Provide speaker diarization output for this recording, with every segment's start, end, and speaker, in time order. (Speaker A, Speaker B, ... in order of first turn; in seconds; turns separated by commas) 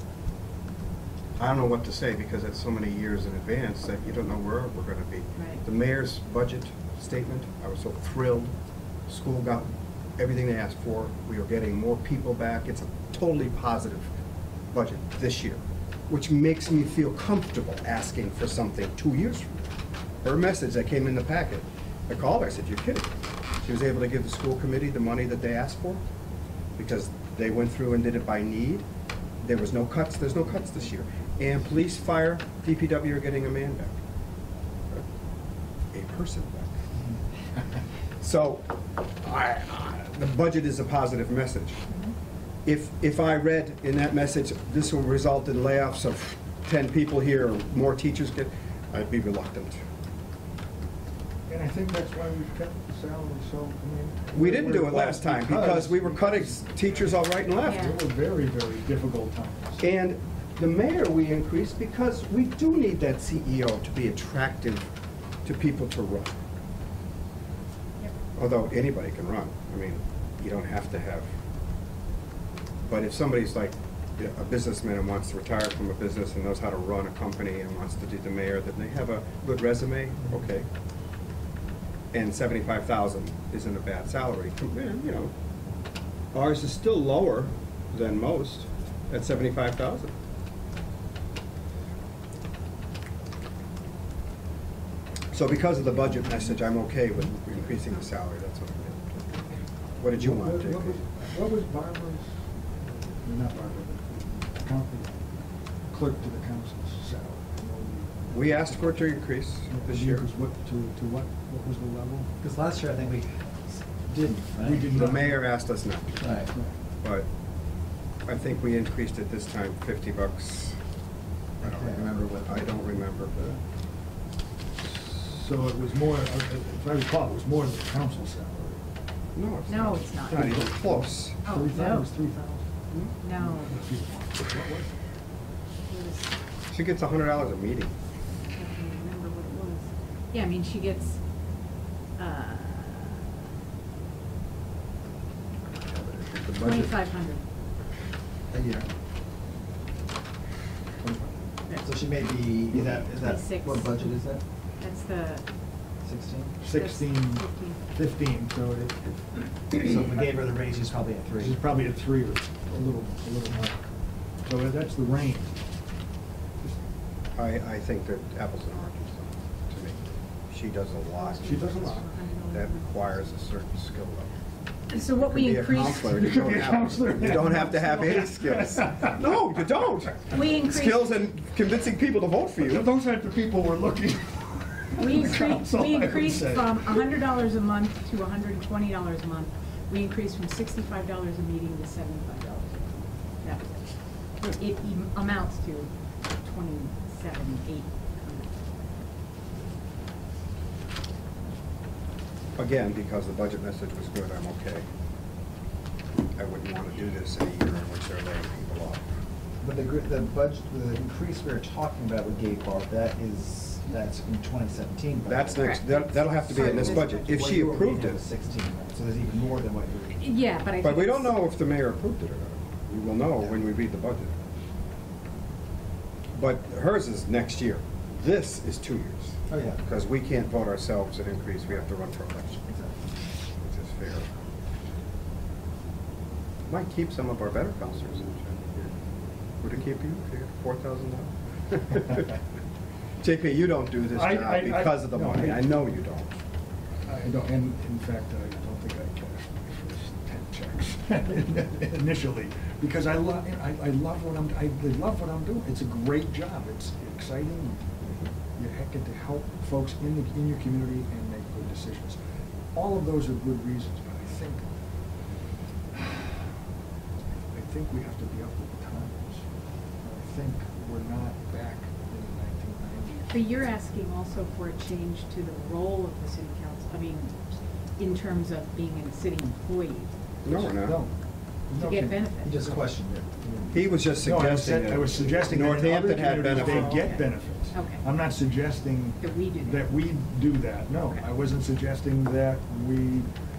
Speaker A: 1.4-8.5, Speaker B: 5.4-5.6, Speaker A: 9.1-14.1, Speaker A: 14.7-19.6, Speaker A: 20.2-26.0, Speaker A: 26.8-28.8, Speaker A: 29.4-34.0, Speaker A: 35.9-36.7, Speaker A: 38.2-41.8, Speaker A: 42.6-49.8, Speaker C: 51.5-59.8, Speaker A: 54.3-57.9, Speaker B: 57.6-58.0, Speaker A: 59.8-64.9, Speaker A: 65.4-66.4, Speaker A: 68.3-71.3, Speaker A: 72.8-80.7, Speaker A: 82.1-85.3, Speaker A: 86.3-90.1, Speaker A: 95.3-99.2, Speaker A: 100.0-101.1, Speaker C: 100.1-105.1, Speaker C: 105.9-112.3, Speaker A: 108.3-110.2, Speaker D: 112.4-115.1, Speaker C: 114.6-115.5, Speaker A: 114.9-116.3, Speaker D: 116.2-116.5, Speaker A: 117.0-117.3, Speaker A: 118.2-120.8, Speaker D: 121.6-122.8, Speaker A: 121.6-123.6, Speaker C: 124.8-128.8, Speaker A: 129.3-131.4, Speaker B: 129.7-130.5, Speaker C: 130.3-132.7, Speaker B: 131.4-132.1, Speaker B: 133.2-133.8, Speaker C: 133.3-135.0, Speaker B: 135.9-136.3, Speaker A: 136.7-137.9, Speaker B: 138.5-141.2, Speaker B: 142.2-143.4, Speaker A: 145.8-147.0, Speaker B: 146.5-147.4, Speaker D: 148.5-148.9, Speaker C: 151.0-151.4, Speaker D: 151.8-154.4, Speaker B: 153.0-154.1, Speaker B: 154.8-155.5, Speaker D: 156.0-156.6, Speaker C: 156.6-160.2, Speaker B: 156.7-157.8, Speaker D: 159.8-161.7, Speaker C: 161.4-163.8, Speaker C: 164.4-165.6, Speaker A: 167.3-174.3, Speaker B: 171.1-173.3, Speaker C: 171.4-172.1, Speaker B: 174.9-176.2, Speaker A: 175.1-182.9, Speaker C: 175.7-179.3, Speaker B: 177.8-178.2, Speaker B: 180.3-181.2, Speaker C: 182.6-187.0, Speaker B: 185.0-193.9, Speaker B: 194.4-198.7, Speaker A: 202.6-204.8, Speaker A: 206.3-209.0, Speaker D: 209.6-215.7, Speaker A: 215.2-218.2, Speaker B: 215.6-217.3, Speaker D: 216.4-220.2, Speaker B: 220.1-221.3, Speaker A: 220.8-224.3, Speaker A: 226.3-232.8, Speaker D: 229.5-229.8, Speaker A: 233.6-234.3, Speaker A: 236.7-238.9, Speaker A: 239.6-242.2, Speaker A: 243.2-246.3, Speaker C: 244.1-245.7, Speaker C: 247.1-257.9, Speaker C: 258.6-262.2, Speaker C: 262.7-264.6, Speaker C: 265.9-266.4, Speaker C: 267.5-269.4, Speaker C: 270.0-273.3, Speaker B: 273.3-277.4, Speaker B: 278.0-280.1, Speaker A: 280.4-281.0, Speaker C: 280.4-281.1, Speaker C: 281.7-282.9, Speaker B: 281.7-282.5, Speaker D: 282.4-284.0, Speaker A: 283.7-287.1, Speaker C: 284.2-293.3, Speaker B: 286.5-288.0, Speaker B: 289.2-289.9